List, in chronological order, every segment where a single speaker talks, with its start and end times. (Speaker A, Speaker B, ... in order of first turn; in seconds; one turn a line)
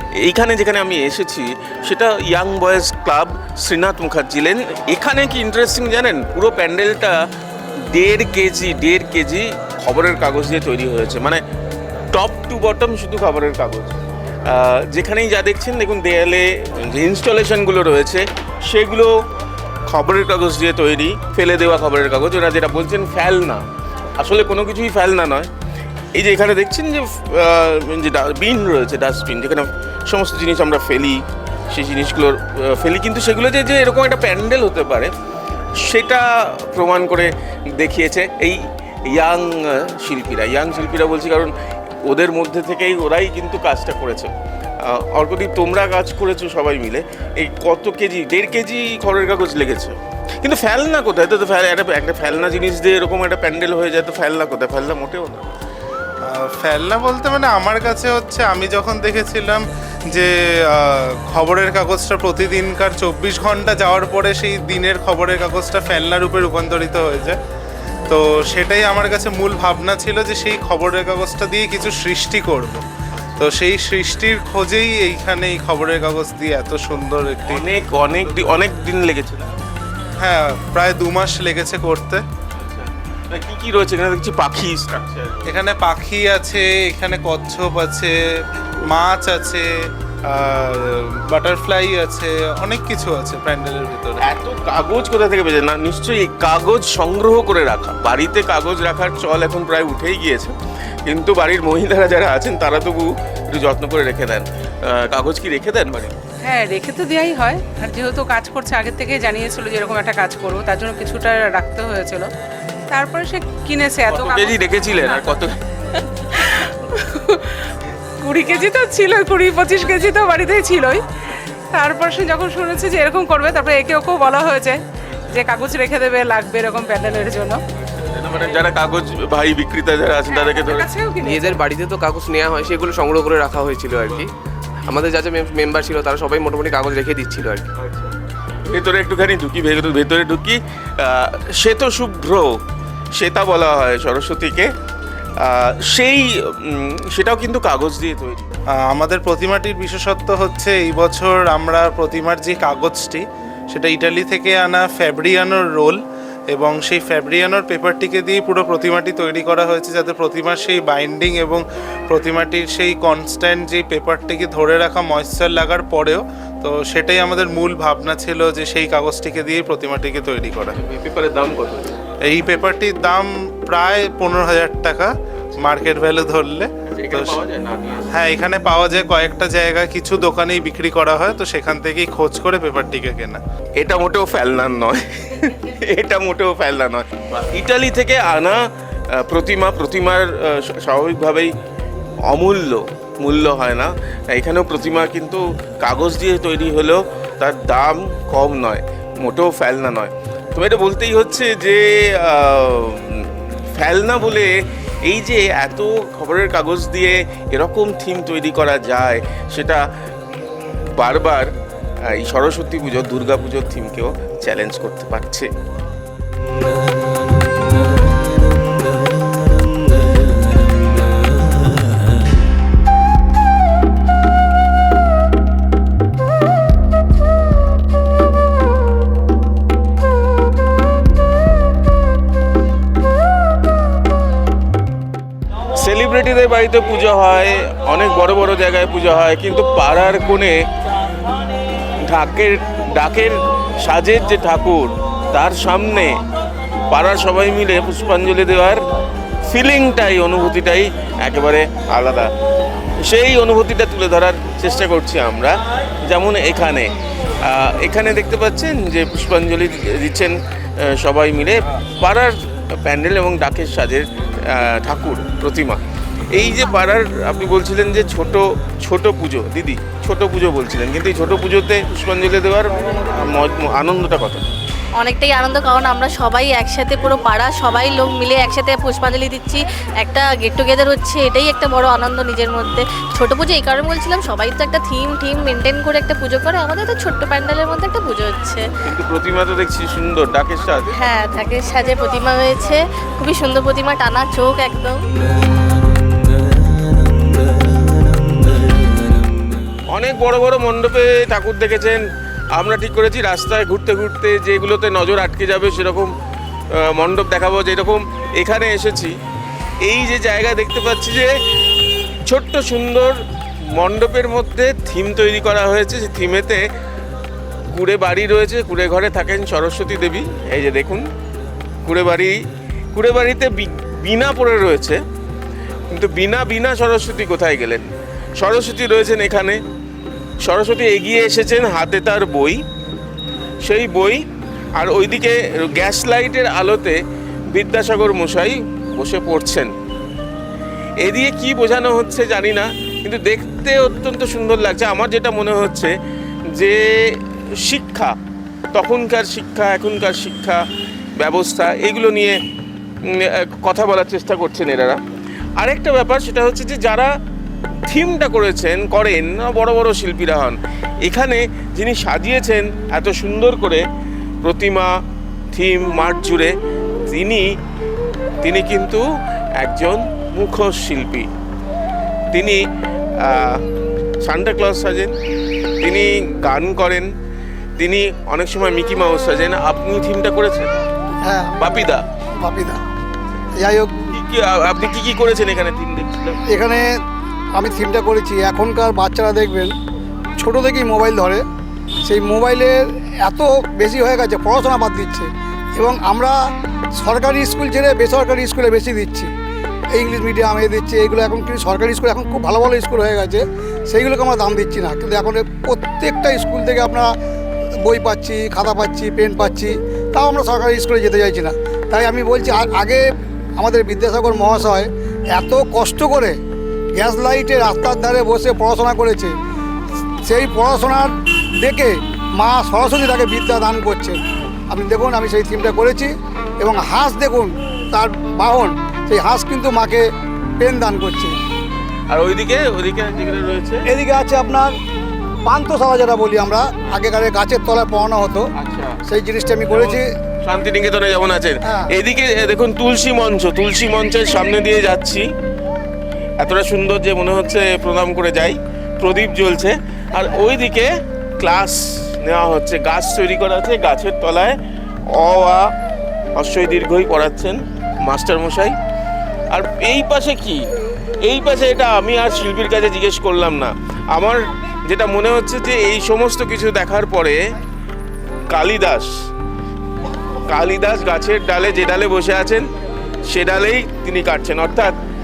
Speaker A: 0.2-7.2
Speaker A: 7.9-11.4
Speaker A: 12.1-19.1
Speaker A: 19.9-23.6
Speaker A: 24.2-25.5
Speaker A: 26.1-35.1
Speaker A: 35.8-55.5
Speaker B: 56.3-67.4
Speaker B: 68.1-72.8
Speaker B: 73.4-77.7
Speaker A: 77.5-79.5
Speaker B: 80.2-82.2
Speaker A: 82.6-85.6
Speaker B: 85.5-88.1
Speaker B: 88.9-89.7
Speaker B: 90.3-94.3
Speaker A: 94.2-106.1
Speaker C: 106.4-112.3
Speaker C: 112.9-115.4
Speaker A: 114.1-115.6
Speaker C: 116.3-117.6
Speaker C: 118.2-121.0
Speaker C: 121.7-127.6
Speaker A: 127.8-130.9
Speaker C: 130.2-131.7
Speaker D: 131.4-134.3
Speaker D: 134.9-137.6
Speaker A: 137.8-138.1
Speaker A: 138.7-142.6
Speaker A: 143.2-144.7
Speaker A: 145.4-148.5
Speaker B: 148.9-156.0
Speaker B: 156.5-170.8
Speaker A: 170.7-172.0
Speaker B: 172.3-177.4
Speaker A: 176.9-178.1
Speaker B: 178.1-183.4
Speaker A: 183.8-188.6
Speaker A: 189.2-191.5
Speaker A: 192.3-204.5
Speaker A: 205.1-209.8
Speaker A: 211.0-211.5
Speaker A: 212.1-215.5
Speaker A: 235.8-240.6
Speaker A: 242.1-246.2
Speaker A: 246.9-248.8
Speaker A: 249.5-252.3
Speaker A: 253.0-256.9
Speaker A: 257.5-265.8
Speaker A: 266.3-274.4
Speaker E: 275.0-288.6
Speaker A: 288.9-291.0
Speaker E: 290.9-295.0
Speaker A: 299.9-302.0
Speaker A: 302.6-306.1
Speaker A: 306.8-309.1
Speaker A: 309.8-311.4
Speaker A: 312.3-313.2
Speaker A: 313.8-316.6
Speaker A: 317.7-321.1
Speaker A: 321.9-322.4
Speaker A: 322.9-325.0
Speaker A: 325.9-329.6
Speaker A: 330.4-332.6
Speaker A: 333.6-334.2
Speaker A: 334.8-337.0
Speaker A: 337.5-339.7
Speaker A: 341.0-345.9
Speaker A: 346.6-348.1
Speaker A: 348.7-350.6
Speaker A: 351.2-352.4
Speaker A: 353.1-355.0
Speaker A: 355.6-357.1
Speaker A: 357.9-363.8
Speaker A: 364.4-364.9
Speaker A: 365.5-366.5
Speaker A: 367.1-367.5
Speaker A: 368.4-369.0
Speaker A: 369.6-371.3
Speaker A: 372.3-372.6
Speaker A: 373.2-373.6
Speaker A: 374.2-375.1
Speaker A: 375.8-377.1
Speaker A: 377.8-380.7
Speaker F: 381.2-382.8
Speaker A: 381.6-382.0
Speaker F: 383.6-383.9
Speaker A: 384.1-386.4
Speaker F: 386.5-386.9
Speaker F: 387.6-389.7
Speaker F: 390.4-391.4
Speaker F: 392.1-396.4
Speaker F: 397.0-399.3
Speaker F: 399.9-407.1
Speaker F: 407.8-413.0
Speaker F: 413.6-416.4
Speaker F: 417.0-419.3
Speaker F: 420.2-430.0
Speaker F: 430.6-431.4
Speaker A: 432.1-433.8
Speaker F: 433.9-434.7
Speaker F: 435.5-438.4
Speaker A: 438.6-439.0
Speaker F: 439.1-440.0
Speaker A: 439.7-445.3
Speaker F: 441.6-441.9
Speaker A: 446.4-454.6
Speaker A: 455.1-455.7
Speaker A: 456.4-458.8
Speaker A: 459.5-460.7
Speaker A: 461.2-467.4
Speaker A: 468.5-469.1
Speaker A: 470.5-472.7
Speaker A: 473.3-474.9